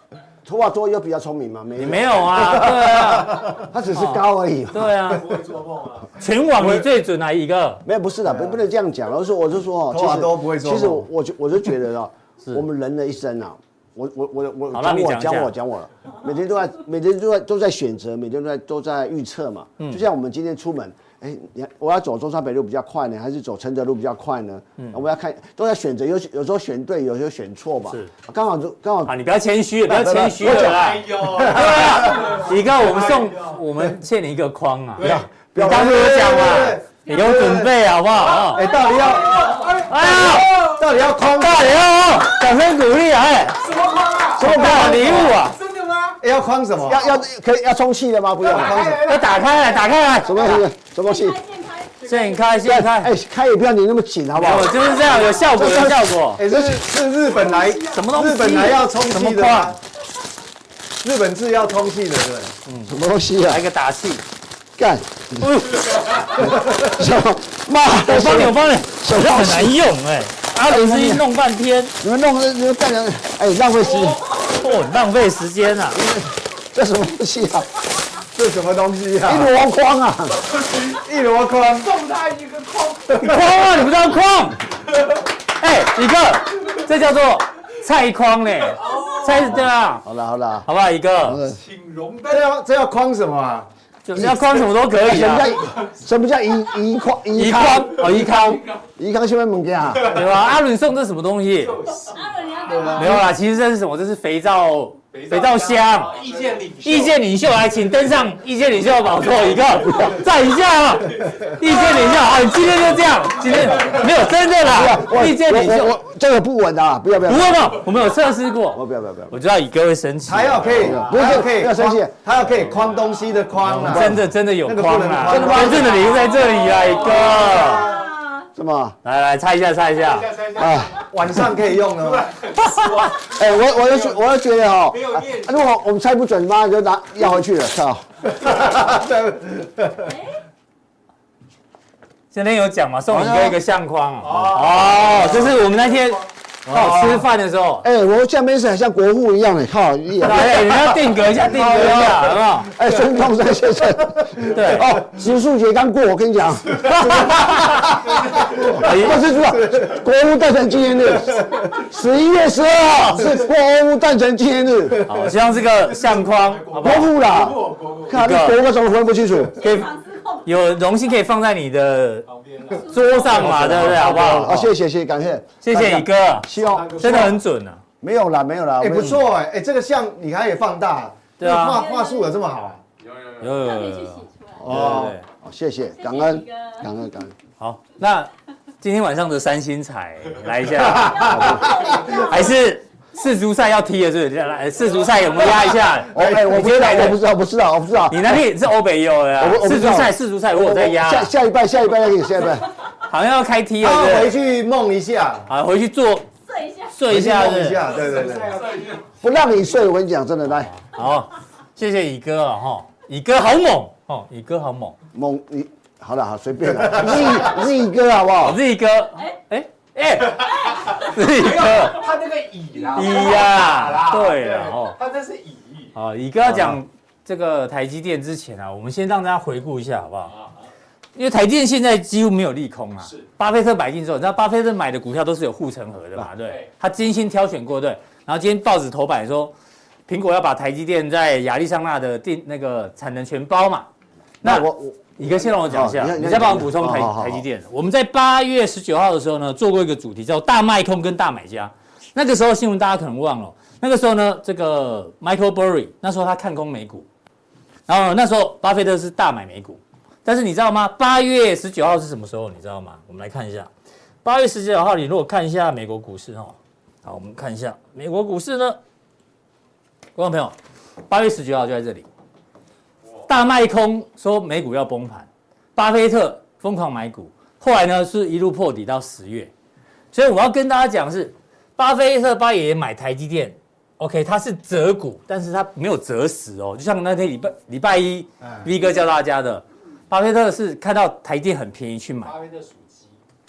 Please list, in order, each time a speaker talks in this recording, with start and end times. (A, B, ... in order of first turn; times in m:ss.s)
0:00.4-0:05.2 A
0:01.8-0:05.4 B
0:06.1-0:07.8 B
0:06.6-0:06.9 C
0:07.9-0:29.1 A
0:08.3-0:08.6 C
0:09.9-0:11.1 C
0:14.7-0:15.5 B
0:29.0-0:38.7 B
0:29.9-0:31.3 A
0:31.5-0:31.9 C
0:32.1-0:32.5 D
0:35.0-0:36.7 A
0:35.6-0:37.7 C
0:38.3-0:41.9 C
0:39.3-0:39.8 E
0:39.8-0:40.7 B
0:41.3-0:43.7 B
0:43.7-0:44.4 D
0:43.7-0:44.3 E
0:44.4-0:45.6 B
0:44.4-0:45.4 A
0:44.4-0:45.4 C
0:45.5-0:46.2 D
0:46.2-0:47.2 C
0:46.8-0:48.9 A
0:48.4-0:49.2 C
0:48.7-0:49.2 D
0:49.0-0:50.6 B
0:50.2-0:51.4 A
0:51.0-0:52.6 E
0:52.1-0:53.1 B
0:52.6-0:54.9 A
0:54.4-0:56.4 B
0:55.3-0:59.8 C
0:56.5-0:56.8 A
0:57.8-0:59.8 B
1:01.0-1:02.6 C
1:02.7-1:04.2 B
1:02.9-1:03.6 A
1:04.8-1:09.8 A
1:05.4-1:06.4 B
1:08.0-1:11.9 B
1:10.6-1:11.2 A
1:12.0-1:14.3 A
1:14.4-1:16.0 B
1:15.9-1:17.8 A
1:18.4-1:19.5 C
1:19.2-1:20.5 A
1:20.7-1:22.1 C
1:22.0-1:23.1 D
1:23.1-1:23.5 C
1:23.1-1:24.8 B
1:25.5-1:30.1 B
1:28.9-1:29.2 D
1:30.0-1:30.7 A
1:30.6-1:31.4 B
1:31.2-1:31.6 A
1:31.6-1:32.3 D
1:32.3-1:33.7 C
1:34.1-1:35.6 B
1:34.2-1:40.2 A
1:37.3-1:38.7 B
1:40.0-1:41.9 B
1:41.8-1:42.8 D
1:41.9-1:43.3 E
1:42.9-1:56.0 B
1:45.2-1:47.1 D
1:49.8-1:50.2 A
1:53.5-1:54.0 A
1:54.6-1:57.9 A
1:57.3-2:01.0 B
1:58.7-1:59.4 A
2:00.3-2:06.2 C
2:00.8-2:02.2 A
2:03.6-2:08.0 B
2:03.8-2:04.2 A
2:05.3-2:06.2 A
2:06.0-2:08.5 E
2:07.4-2:07.7 C
2:08.6-2:09.0 A
2:09.0-2:10.4 B
2:10.2-2:10.7 D
2:10.5-2:11.1 A
2:11.0-2:12.3 C
2:12.3-2:13.4 D
2:13.1-2:18.1 A
2:14.9-2:15.5 D
2:18.3-2:20.2 C
2:20.0-2:20.4 E
2:22.3-2:27.9 B
2:23.1-2:23.6 A
2:26.7-2:27.0 C
2:26.7-2:27.2 A
2:27.8-2:45.2 A
2:30.2-2:32.7 B
2:34.5-2:34.9 B
2:36.8-2:38.0 B
2:38.6-2:39.3 B
2:45.1-2:47.1 B
2:46.5-2:48.1 D
2:46.8-2:49.6 A
2:48.1-2:48.6 B
2:49.6-2:50.5 E
2:49.6-2:49.9 B
2:50.4-2:54.7 B
2:52.4-2:52.7 D
2:52.7-2:53.7 E
2:53.2-2:57.4 A
2:55.6-2:57.8 B
2:56.7-2:57.2 D
2:58.0-2:59.2 A
2:58.8-3:02.8 C
3:01.4-3:01.8 B
3:01.6-3:02.4 E
3:03.4-3:05.3 B
3:03.5-3:04.6 E
3:04.6-3:05.2 C
3:04.6-3:07.3 A
3:06.0-3:06.9 E
3:07.6-3:08.3 B
3:08.8-3:17.2 B
3:11.3-3:11.8 A
3:11.3-3:12.5 E
3:16.1-3:18.4 A
3:16.2-3:16.4 C
3:18.1-3:21.3 B
3:19.4-3:22.7 A
3:23.0-3:24.4 B
3:23.8-3:25.5 C
3:25.5-3:26.3 B
3:26.5-3:27.0 E
3:26.9-3:27.9 B
3:27.1-3:28.9 C
3:28.6-3:28.9 D
3:29.2-3:30.7 A
3:30.6-3:35.0 B
3:35.1-3:38.6 A
3:38.4-3:42.2 B
3:41.5-3:45.9 D
3:42.7-3:43.6 E
3:42.9-3:45.0 B
3:45.9-3:50.4 B
3:51.2-3:59.5 B
4:00.1-4:03.9 B
4:04.4-4:07.4 A
4:04.4-4:17.1 B
4:17.9-4:23.7 B
4:24.2-4:28.8 B
4:30.2-4:30.6 B
4:31.1-4:32.1 B
4:33.3-4:39.5 B
4:40.1-4:52.4 B
4:52.4-4:52.7 D